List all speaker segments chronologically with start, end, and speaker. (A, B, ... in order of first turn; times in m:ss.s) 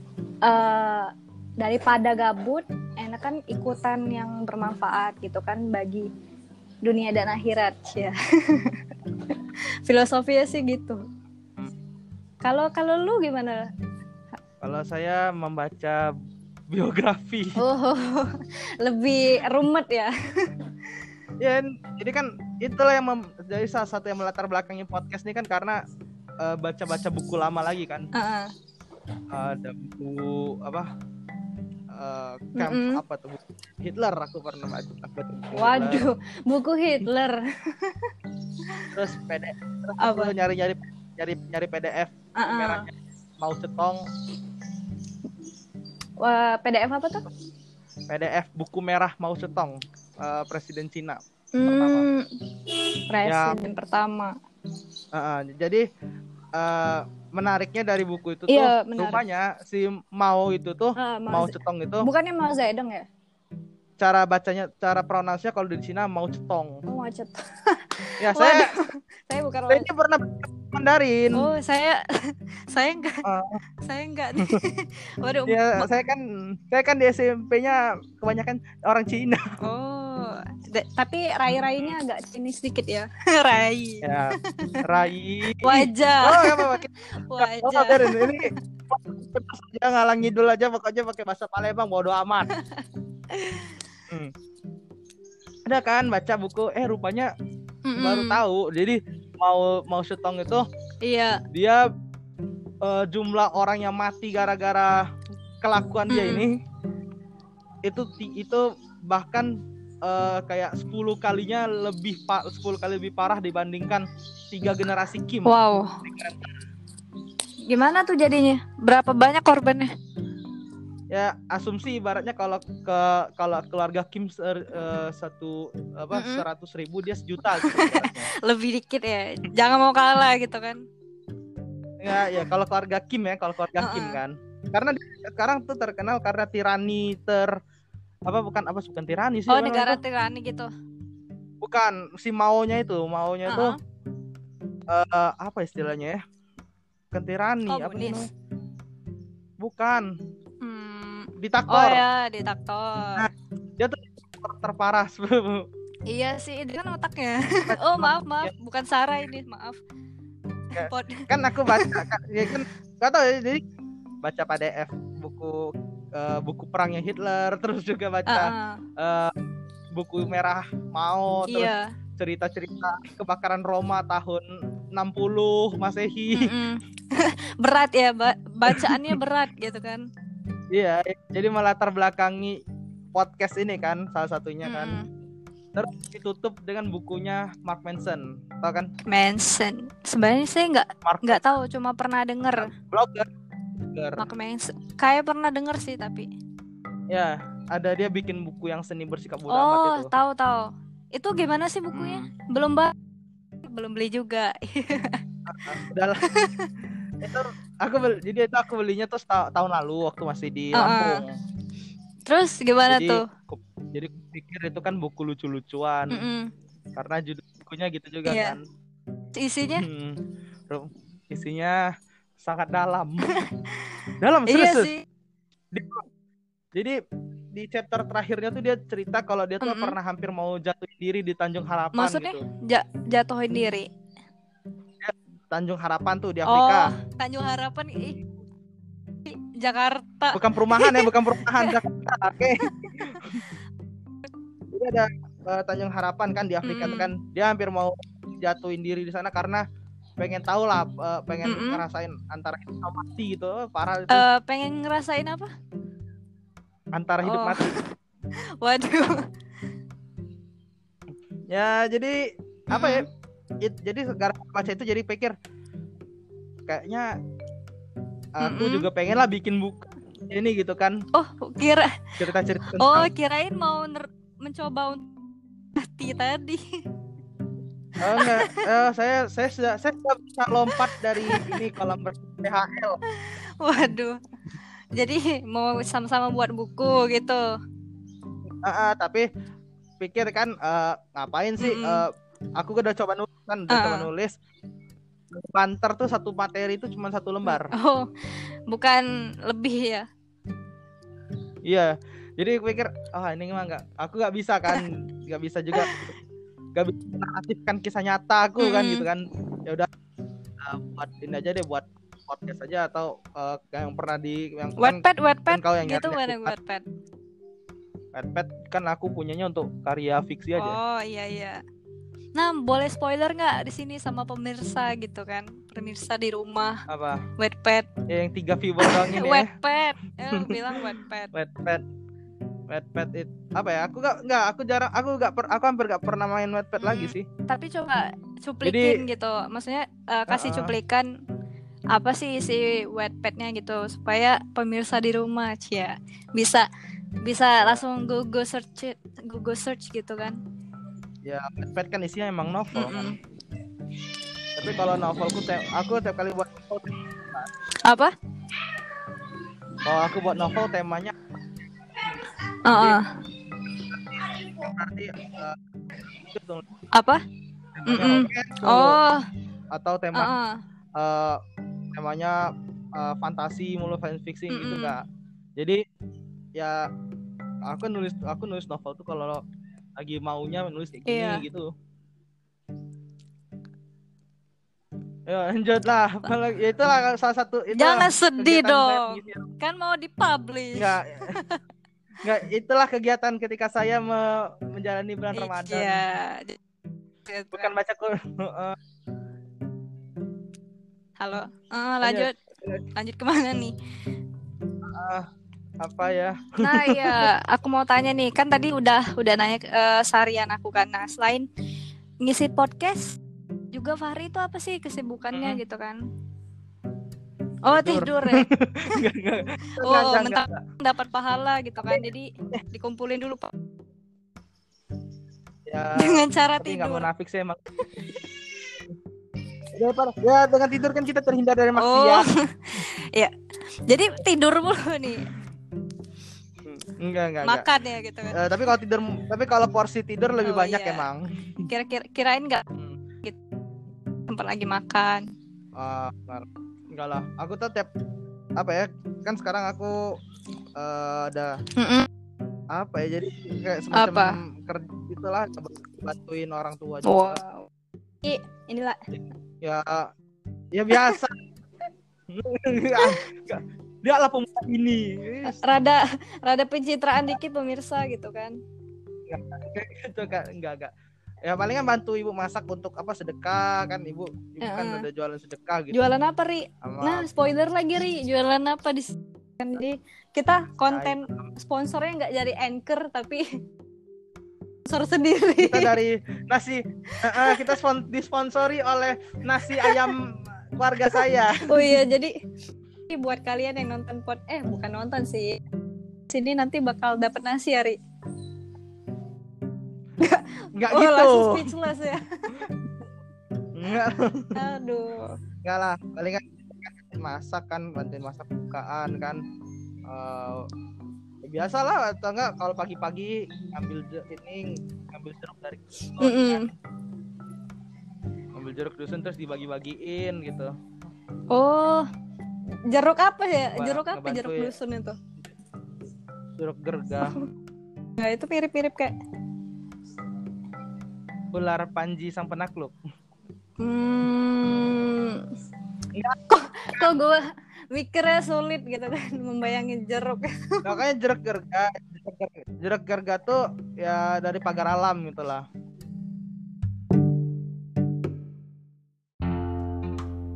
0:00.4-0:06.1 A
0:06.8-0:11.0 A
0:12.4-0:13.7 A
0:14.6-0:16.1 B
0:16.7-0:17.6 B
0:17.6-0:20.5 A
0:21.4-0:25.8 B
0:26.4-0:28.1 B
0:28.1-0:28.5 A
0:29.3-0:30.9 B
0:31.9-0:36.0 B
0:32.6-0:33.0 A
0:35.6-0:38.1 A
0:38.9-0:44.0 B
0:40.0-0:40.3 A
0:42.4-0:42.9 A
0:46.2-0:47.3 A
0:48.1-0:52.1 B
0:51.6-0:52.3 A
0:53.1-0:54.4 A
0:53.2-0:53.6 B
0:55.1-0:55.8 B
0:56.6-1:02.1 B
0:58.5-0:59.2 A
1:01.0-1:03.1 A
1:04.0-1:06.8 B
1:06.9-1:09.9 A
1:08.2-1:08.7 B
1:09.7-1:11.5 B
1:11.4-1:13.2 A
1:13.2-1:13.6 B
1:13.8-1:15.9 A
1:15.5-1:19.4 B
1:19.6-1:24.8 A
1:21.5-1:22.0 B
1:24.0-1:32.5 B
1:25.6-1:28.6 A
1:32.5-1:33.8 A
1:35.7-1:37.3 B
1:37.9-1:38.4 A
1:38.0-1:40.7 B
1:41.0-1:41.4 A
1:41.5-1:41.9 B
1:42.8-1:45.1 B
1:45.6-1:46.6 B
1:46.1-1:46.5 A
1:47.8-1:49.5 B
1:50.0-1:55.5 B
1:55.4-1:56.0 A
1:56.0-1:56.5 B
1:57.7-1:59.9 A
2:01.1-2:08.3 B
2:06.1-2:06.5 A
2:07.5-2:10.9 A
2:12.0-2:17.6 B
2:13.8-2:14.2 A
2:18.3-2:20.0 B
2:19.5-2:20.7 A
2:21.6-2:23.8 B
2:23.5-2:23.8 A
2:24.9-2:26.2 B
2:27.1-2:28.3 B
2:27.7-2:28.3 A
2:29.6-2:30.1 B
2:30.6-2:33.3 A
2:31.4-2:32.0 B
2:33.2-2:35.6 B
2:36.1-2:39.8 A
2:37.7-2:38.5 B
2:40.7-2:42.0 A
2:40.7-2:43.6 B
2:44.2-2:49.3 B
2:48.3-2:48.8 A
2:49.9-2:56.5 B
2:51.5-2:51.9 A
2:56.3-3:00.0 A
2:58.7-2:59.2 B
3:00.7-3:02.6 B
3:03.1-3:05.0 B
3:04.6-3:05.1 A
3:05.7-3:08.9 B
3:09.0-3:12.7 A
3:11.0-3:11.5 B
3:12.5-3:14.2 B
3:14.2-3:16.3 A
3:17.1-3:20.1 B
3:19.5-3:22.9 A
3:21.9-3:22.3 B
3:23.6-3:26.7 A
3:25.5-3:26.3 B
3:27.2-3:31.4 B
3:30.7-3:31.2 A
3:32.3-3:33.3 A
3:32.9-3:36.2 B
3:36.1-3:36.5 A
3:37.0-3:38.6 B
3:38.2-3:38.6 A
3:39.4-3:39.9 A
3:39.8-3:41.9 B
3:42.4-3:43.3 B
3:43.3-3:45.0 A
3:44.2-3:44.9 B
3:45.7-3:46.1 B
3:46.7-3:47.0 B
3:47.5-3:52.4 B
3:49.6-3:50.0 A
3:51.9-3:53.9 A
3:55.0-3:56.9 B
3:56.5-3:58.2 A
3:59.2-4:01.8 A
4:00.3-4:03.4 B
4:02.7-4:03.2 A
4:04.7-4:09.6 B
4:06.6-4:07.1 A
4:10.2-4:14.3 B
4:11.4-4:11.8 A
4:14.1-4:15.5 A
4:16.9-4:17.7 B
4:17.2-4:17.9 A
4:18.6-4:19.3 A
4:21.5-4:23.1 B
4:22.7-4:23.1 A
4:23.6-4:25.4 B
4:26.7-4:27.2 B
4:28.4-4:31.0 B
4:28.4-4:28.9 A
4:31.1-4:32.2 A
4:32.2-4:33.1 B
4:32.7-4:35.1 A
4:35.8-4:36.8 A
4:38.0-4:43.0 B
4:38.1-4:38.7 A
4:40.7-4:41.7 A
4:43.1-4:44.2 A
4:44.9-4:47.5 A
4:48.6-4:49.3 B
4:50.0-4:54.3 B
4:51.6-4:52.0 A
4:53.7-4:54.1 A
4:55.3-4:57.7 B
4:57.5-5:00.1 A
5:01.7-5:06.2 B
5:05.8-5:06.0 A
5:06.8-5:09.9 B
5:08.6-5:09.1 A
5:10.6-5:16.6 B
5:14.8-5:16.8 A
5:18.1-5:20.8 B
5:20.6-5:21.6 A
5:22.4-5:26.8 A
5:26.9-5:27.3 B
5:27.4-5:27.9 A
5:28.1-5:29.5 B
5:28.8-5:31.3 A
5:30.3-5:31.8 B
5:32.7-5:37.3 B
5:36.8-5:41.1 A
5:38.6-5:39.0 B
5:40.3-5:40.7 B
5:41.9-5:46.7 A
5:47.2-5:50.4 A
5:51.2-5:53.2 B
5:52.7-5:53.2 A
5:54.6-5:57.5 B
5:57.8-5:58.1 A
5:59.8-6:01.2 B
6:02.7-6:03.1 A
6:02.8-6:03.0 B
6:03.9-6:05.6 B
6:06.1-6:06.7 B
6:06.9-6:07.2 A
6:07.8-6:09.0 B
6:07.9-6:09.2 A
6:09.7-6:10.3 B
6:10.1-6:10.6 A
6:11.0-6:11.4 B
6:11.9-6:15.0 B
6:14.5-6:15.0 A
6:16.6-6:16.8 B
6:17.7-6:19.4 B
6:20.0-6:21.7 B
6:21.1-6:21.4 A
6:25.3-6:29.5 B
6:27.7-6:31.6 A
6:30.8-6:31.4 B
6:32.2-6:36.0 B
6:35.3-6:36.6 A
6:37.3-6:37.7 A
6:37.5-6:38.8 B
6:41.2-6:42.4 A
6:42.0-6:42.8 B
6:43.0-6:43.7 A
6:44.8-6:45.3 B
6:45.8-6:47.3 B
6:46.6-6:51.5 A
6:52.2-6:53.2 A
6:53.7-6:56.0 A
6:55.3-6:55.6 B
6:57.6-6:58.5 A
6:57.7-7:00.6 B
6:59.8-7:03.5 A
7:01.8-7:02.6 B
7:05.7-7:07.6 B
7:06.0-7:07.1 A
7:09.7-7:12.3 B
7:11.8-7:13.3 A
7:13.9-7:15.3 A
7:16.6-7:17.7 B
7:17.4-7:18.4 A
7:18.3-7:21.7 B
7:20.4-7:21.1 A
7:21.7-7:22.6 A
7:22.8-7:23.0 B
7:24.3-7:25.3 A
7:25.8-7:27.9 B
7:28.6-7:30.1 B
7:30.8-7:31.6 B
7:31.8-7:32.1 A
7:32.7-7:37.4 B
7:33.9-7:34.4 A
7:37.0-7:37.7 A
7:38.2-7:39.0 A
7:39.1-7:40.1 B
7:40.7-7:41.4 B
7:40.9-7:41.2 A
7:42.3-7:45.6 B
7:43.0-7:43.2 A
7:45.4-7:48.6 A
7:49.3-7:50.9 B
7:51.4-7:56.0 B
7:54.6-7:55.1 A
7:55.9-8:03.5 A
7:56.8-7:57.3 B
8:00.9-8:01.5 B
8:04.9-8:05.9 A
8:05.6-8:12.0 B
8:07.1-8:07.8 A
8:09.7-8:10.1 A
8:11.1-8:12.4 A
8:13.1-8:15.6 A
8:16.3-8:18.0 A
8:20.2-8:22.6 A
8:20.8-8:21.8 B
8:22.6-8:22.8 B
8:23.7-8:24.6 B
8:24.6-8:25.3 A
8:25.6-8:29.4 B
8:30.1-8:30.7 B
8:31.4-8:36.8 B
8:36.2-8:36.7 A
8:38.6-8:40.8 B
8:41.5-8:42.1 A
8:42.9-8:45.2 A
8:43.8-8:44.8 B
8:46.6-8:47.4 B
8:48.2-8:49.1 A
8:51.5-8:53.0 B
8:53.8-8:55.5 A
8:56.5-9:01.0 A
9:00.8-9:05.7 B